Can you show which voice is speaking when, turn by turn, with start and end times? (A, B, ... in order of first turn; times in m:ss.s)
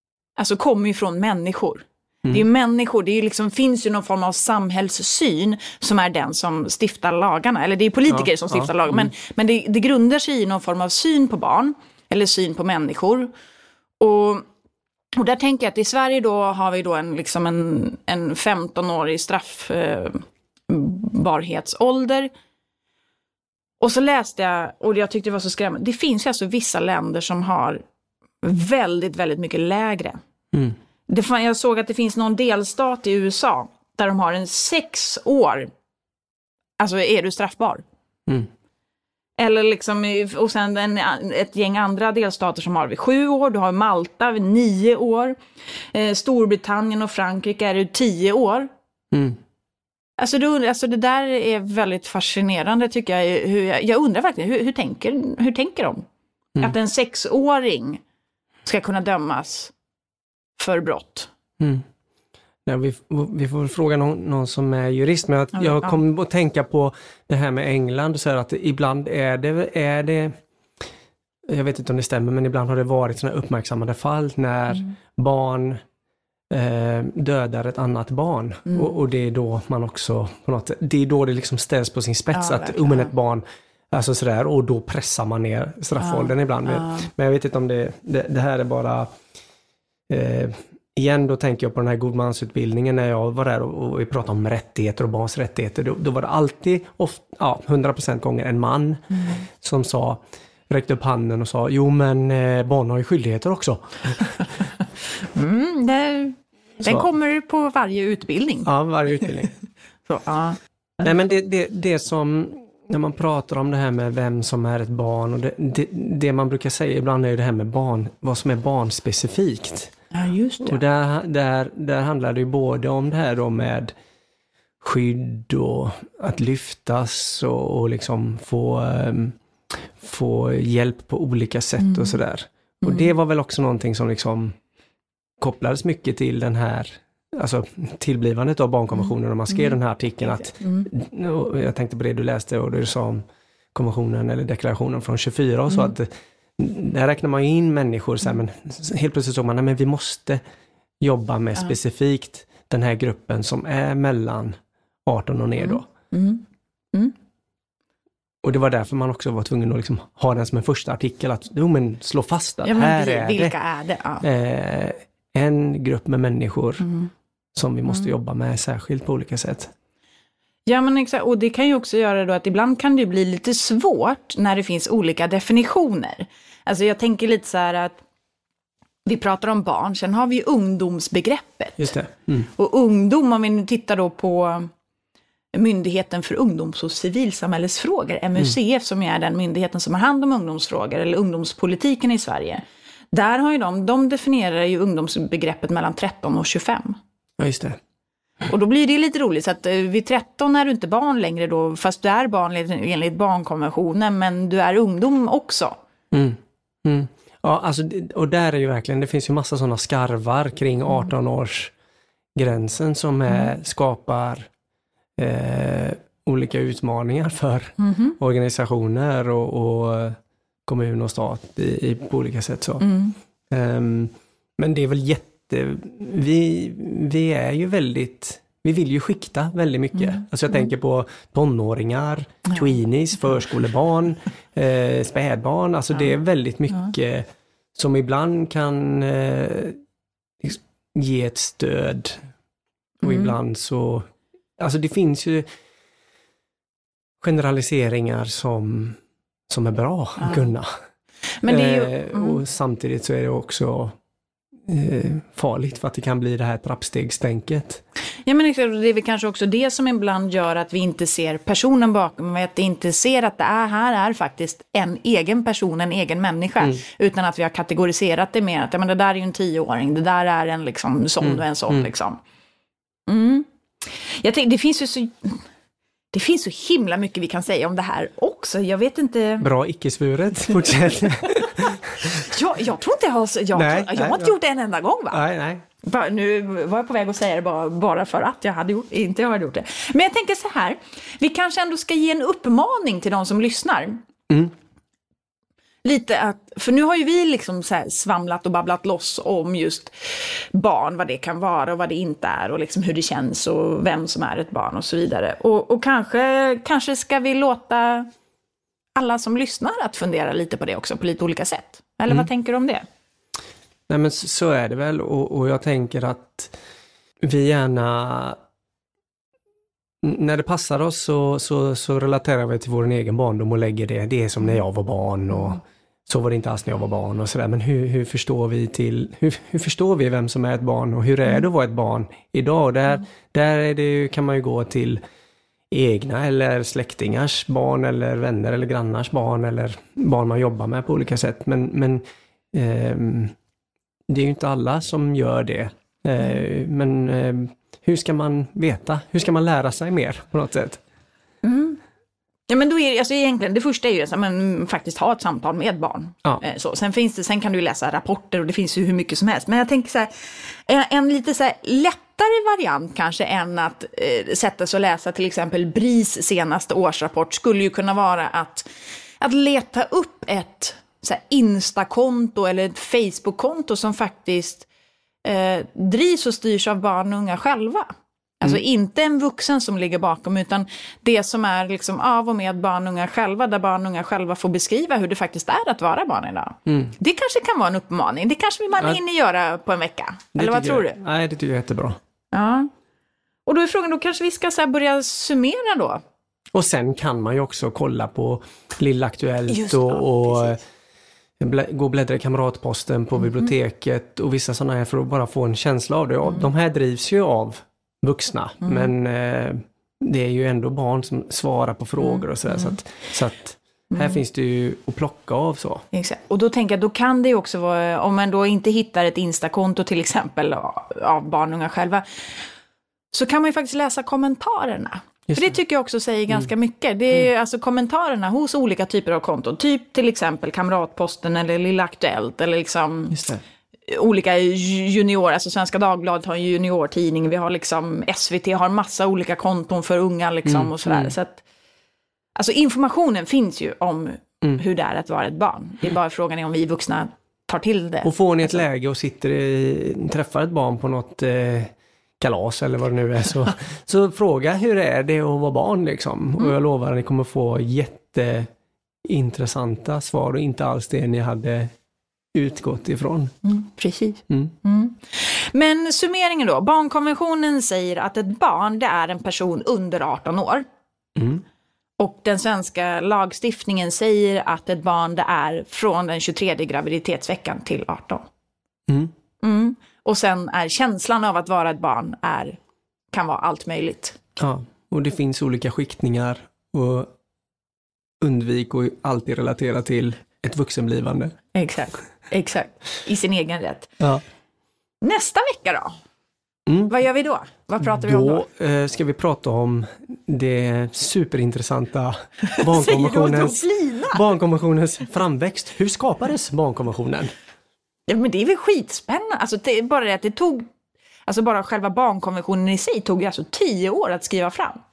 0:00.4-0:13.3 A
0:08.1-0:09.1 B
0:14.0-0:14.4 A
0:15.2-0:22.3 A
0:23.8-0:27.8 A
0:28.4-0:30.2 A
0:31.1-0:35.7 A
0:36.8-0:37.8 A
0:39.4-0:45.4 A
0:45.9-0:48.7 A
0:49.1-0:49.4 B
0:50.2-0:56.0 A
0:56.6-0:58.0 A
0:58.6-0:59.7 A
1:00.6-1:01.3 A
1:01.6-1:01.8 B
1:02.7-1:10.4 B
1:05.6-1:06.0 A
1:11.5-1:15.8 B
1:16.5-1:29.1 B
1:22.3-1:23.1 A
1:26.0-1:27.1 A
1:30.1-1:44.5 B
1:39.1-1:39.4 A
1:45.2-1:48.7 A
1:48.6-1:49.5 B
1:50.1-1:50.6 A
1:51.0-1:59.9 B
2:00.1-2:00.8 A
2:00.6-2:03.9 B
2:04.8-2:09.4 B
2:10.0-2:14.6 B
2:11.8-2:12.2 A
2:15.4-2:23.2 B
2:20.6-2:20.9 A
2:23.7-2:30.4 B
2:31.0-2:35.9 B
2:35.6-2:37.2 A
2:38.4-2:43.6 B
2:42.6-2:44.2 A
2:44.2-2:46.9 B
2:46.8-2:47.1 A
2:47.6-2:49.7 B
2:50.7-2:58.0 A
2:59.1-3:01.9 A
3:01.8-3:02.5 B
3:02.6-3:04.7 A
3:05.6-3:17.0 A
3:17.4-3:17.8 B
3:18.5-3:25.8 A
3:26.1-3:31.7 B
3:32.4-3:34.5 B
3:35.2-3:42.9 B
3:37.8-3:38.2 A
3:42.8-3:43.2 A
3:43.5-3:59.8 B
4:00.4-4:02.3 B
4:03.0-4:05.5 B
4:03.0-4:03.3 A
4:07.2-4:09.0 B
4:09.5-4:10.7 B
4:10.2-4:10.5 A
4:11.4-4:12.4 A
4:11.5-4:14.0 B
4:14.7-4:17.8 B
4:18.3-4:32.2 A
4:31.2-4:31.8 B
4:33.1-4:33.5 A
4:34.1-4:35.4 A
4:36.1-4:39.5 A
4:39.4-4:42.3 B
4:41.3-4:45.2 A
4:43.6-4:44.3 B
4:45.1-4:45.6 B
4:45.8-4:54.0 A
4:55.8-5:08.1 A
5:09.0-5:12.9 A
5:13.9-5:16.6 B
5:17.2-5:18.4 B
5:20.0-5:35.0 B
5:35.7-5:43.3 B
5:44.1-5:50.8 B
5:51.4-5:51.8 A
5:52.5-6:08.7 A
6:09.2-6:14.7 A
6:15.2-6:17.9 A
6:18.4-6:31.0 A
6:26.7-6:26.9 B
6:30.4-6:32.0 B
6:32.3-6:32.7 A
6:33.5-6:36.0 A
6:36.5-6:40.6 B
6:39.5-6:40.6 A
6:41.4-6:55.8 B
6:48.6-6:48.9 A
6:52.0-6:52.8 A
6:53.9-6:54.2 A
6:55.9-7:02.3 A
7:03.1-7:13.2 A
7:13.1-7:13.4 B
7:13.9-7:21.4 A
7:20.5-7:21.1 B
7:22.4-7:28.1 A
7:28.0-7:38.5 B
7:39.0-7:41.7 B
7:42.3-7:43.3 B
7:43.4-7:50.6 A
7:51.2-7:51.4 B
7:52.0-7:58.3 A
7:58.9-7:59.1 B
7:59.4-8:02.6 A
8:03.1-8:04.2 A
8:04.4-8:07.1 B
8:08.2-8:11.3 B
8:11.5-8:13.9 A
8:15.0-8:15.9 A
8:16.7-8:16.9 B
8:16.9-8:18.4 A
8:17.8-8:23.6 B
8:22.5-8:24.2 A
8:24.1-8:27.3 B
8:28.1-8:30.6 A
8:31.3-8:34.8 A